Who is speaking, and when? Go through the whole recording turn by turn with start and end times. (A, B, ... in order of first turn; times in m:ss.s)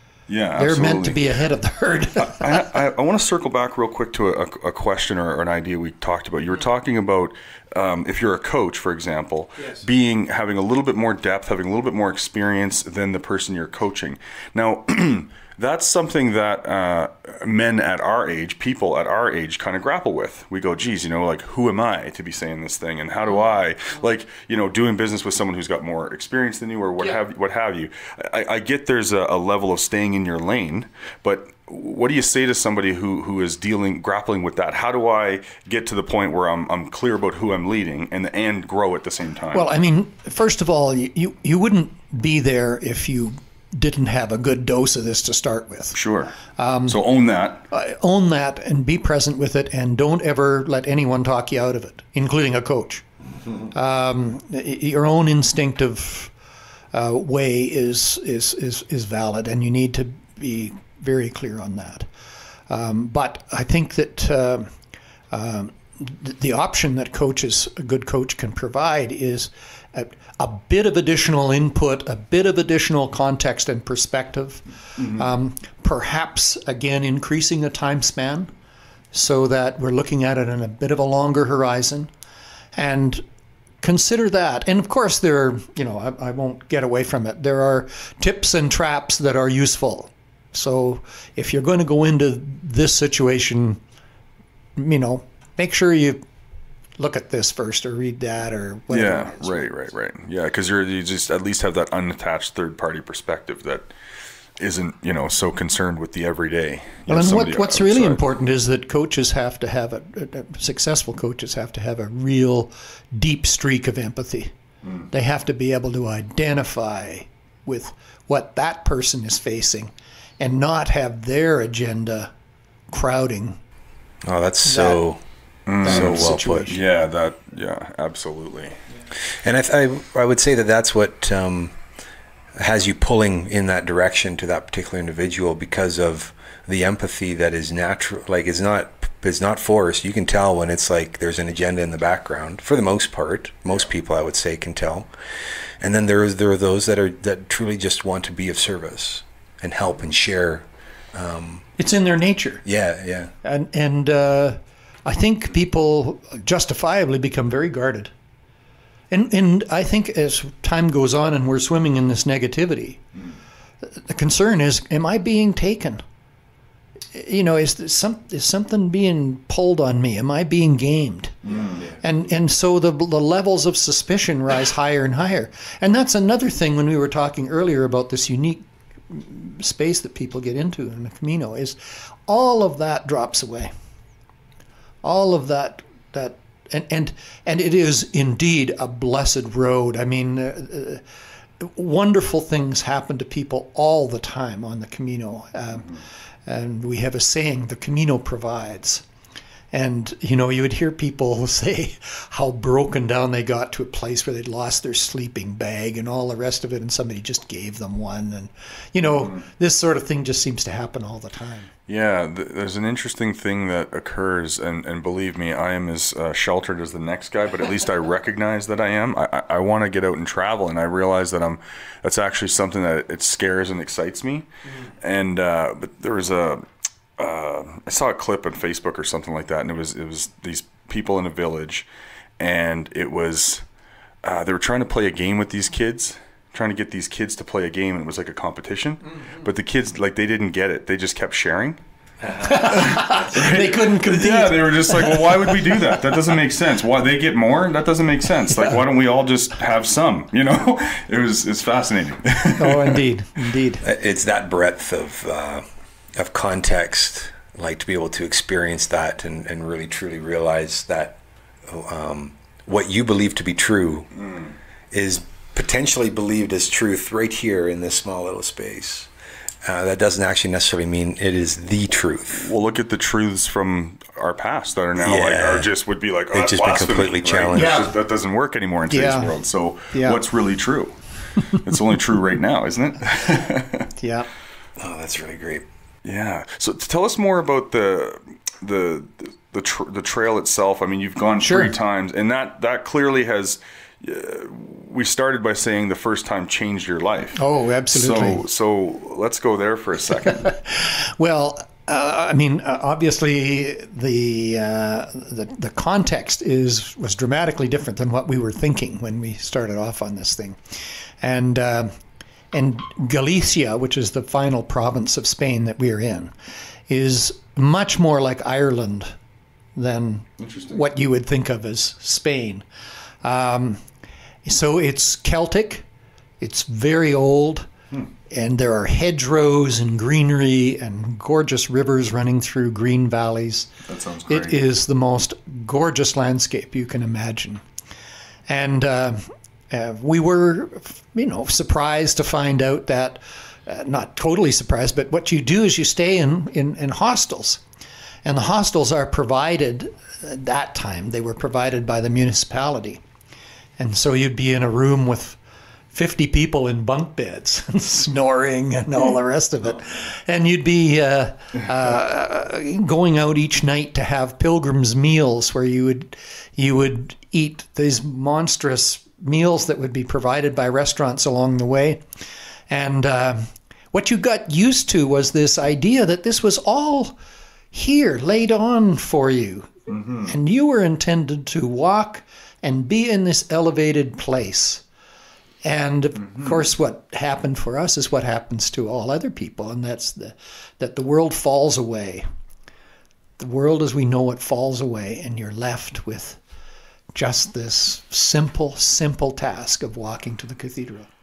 0:00.3-0:01.2 A
0:00.6-0:02.5 B
0:02.2-0:39.7 A
0:39.5-0:46.0 B
0:46.0-0:46.4 A
0:46.6-0:47.0 B
0:46.9-0:47.6 A
0:47.7-0:53.0 B
0:53.7-0:56.3 B
0:56.9-1:02.1 B
1:02.7-1:04.7 B
1:05.3-1:18.5 B
1:19.1-1:22.1 B
1:22.8-1:23.2 B
1:23.8-1:33.8 B
1:34.8-1:36.2 B
1:37.0-1:39.6 B
1:38.9-1:43.9 A
1:44.6-1:48.2 A
1:47.1-1:54.5 B
1:55.1-2:02.3 B
2:02.9-2:03.6 B
2:04.2-2:05.2 C
2:04.6-2:05.0 B
2:05.7-2:08.8 A
2:05.8-2:06.8 C
2:05.8-2:06.8 B
2:09.4-2:11.8 C
2:12.6-2:25.1 C
2:25.8-2:31.7 C
2:31.8-2:32.6 B
2:32.6-2:33.3 C
2:33.4-2:38.1 B
2:39.1-2:43.0 B
2:43.9-2:46.0 B
2:47.1-3:03.7 B
2:51.5-2:51.8 A
3:05.0-3:11.0 B
3:11.6-3:15.9 B
3:16.5-3:19.0 B
3:19.7-3:31.7 B
3:31.9-3:44.5 A
3:45.0-3:46.6 A
3:47.2-3:51.9 A
3:52.4-3:53.6 A
3:54.2-4:01.8 A
4:02.4-4:06.1 B
4:02.7-4:13.0 A
4:12.6-4:13.8 B
4:13.8-4:15.6 C
4:16.2-4:24.1 C
4:24.9-4:29.1 C
4:29.6-4:32.5 C
4:32.4-4:43.9 A
4:35.0-4:35.7 C
4:36.3-4:37.9 C
4:37.5-4:37.9 B
4:38.9-4:39.3 B
4:39.9-4:40.2 B
4:44.0-4:44.3 B
4:44.8-4:45.7 C
4:46.0-5:00.5 A
4:51.4-4:51.7 B
4:57.4-4:58.4 B
5:00.5-5:10.6 B
5:11.2-5:11.9 B
5:12.5-5:16.3 B
5:16.9-5:19.1 B
5:19.8-5:22.6 B
5:20.4-5:20.8 A
5:23.2-5:23.8 B
5:24.4-5:25.9 B
5:26.4-5:27.7 B
5:28.3-5:33.7 B
5:33.9-5:34.6 A
5:34.3-5:37.6 B
5:38.5-5:47.6 B
5:48.2-5:53.0 B
5:53.8-5:55.4 B
5:55.9-6:12.0 B
6:12.7-6:17.1 B
6:17.7-6:19.7 B
6:19.9-6:20.3 A
6:20.2-6:24.8 B
6:25.6-6:32.2 B
6:33.4-6:36.4 B
6:37.2-6:41.1 B